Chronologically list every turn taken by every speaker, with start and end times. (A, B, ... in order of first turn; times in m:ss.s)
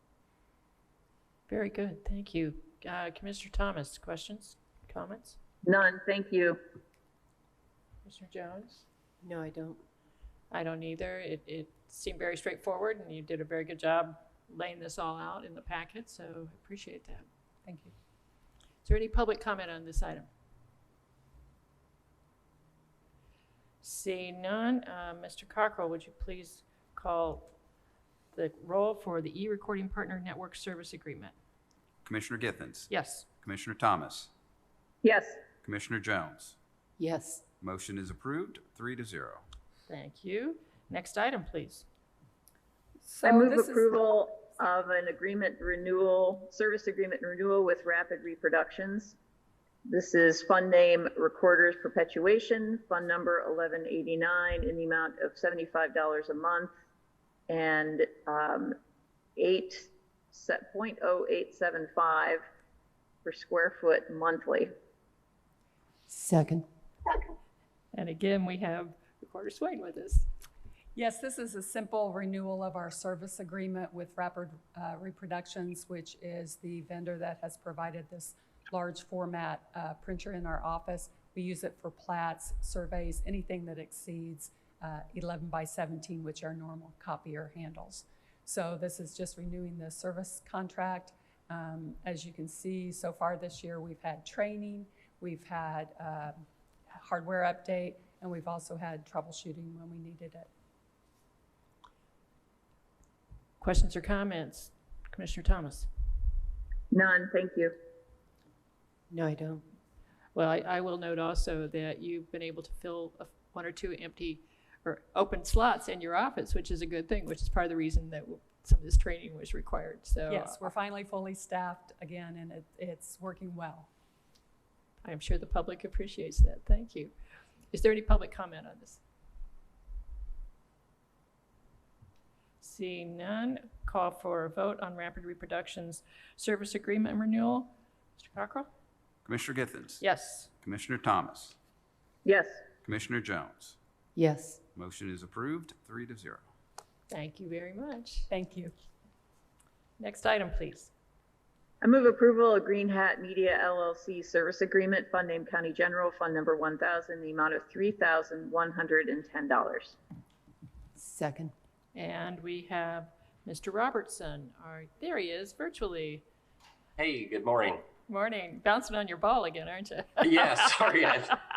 0:01.5-0:05.4 A
0:05.6-0:06.6 B
0:08.0-0:08.8 A
0:09.2-0:09.8 C
0:10.5-0:17.2 A
0:17.6-0:17.9 D
0:18.8-0:20.3 A
0:23.8-0:27.5 A
0:28.3-0:31.3 A
0:32.0-0:34.3 E
0:32.9-0:33.2 A
0:35.0-0:35.4 B
0:35.6-0:36.6 E
0:37.0-0:37.4 C
0:37.6-0:39.4 E
0:39.9-0:41.8 A
0:43.0-0:44.0 D
0:43.2-0:49.2 B
0:49.9-0:56.7 B
0:57.5-0:58.7 B
0:59.4-1:02.4 B
1:03.2-1:04.7 B
1:06.1-1:06.6 C
1:07.9-1:10.3 A
1:10.9-1:40.5 D
1:43.6-1:45.9 A
1:46.9-1:47.7 B
1:49.1-1:49.6 C
1:50.3-2:00.7 A
2:00.3-2:03.9 D
2:05.0-2:07.1 A
2:07.7-2:09.0 A
2:12.6-2:18.7 A
2:19.2-2:20.0 E
2:20.0-2:20.5 A
2:20.6-2:21.6 E
2:22.2-2:22.6 B
2:22.8-2:23.8 E
2:24.2-2:24.6 C
2:24.7-2:26.4 E
2:27.1-2:28.3 A
2:28.3-2:28.7 D
2:30.0-2:30.9 A
2:31.8-2:40.0 B
2:41.0-2:41.5 C
2:41.9-2:46.2 A
2:47.0-2:47.8 F
2:48.1-2:51.0 A
2:50.2-2:51.4 F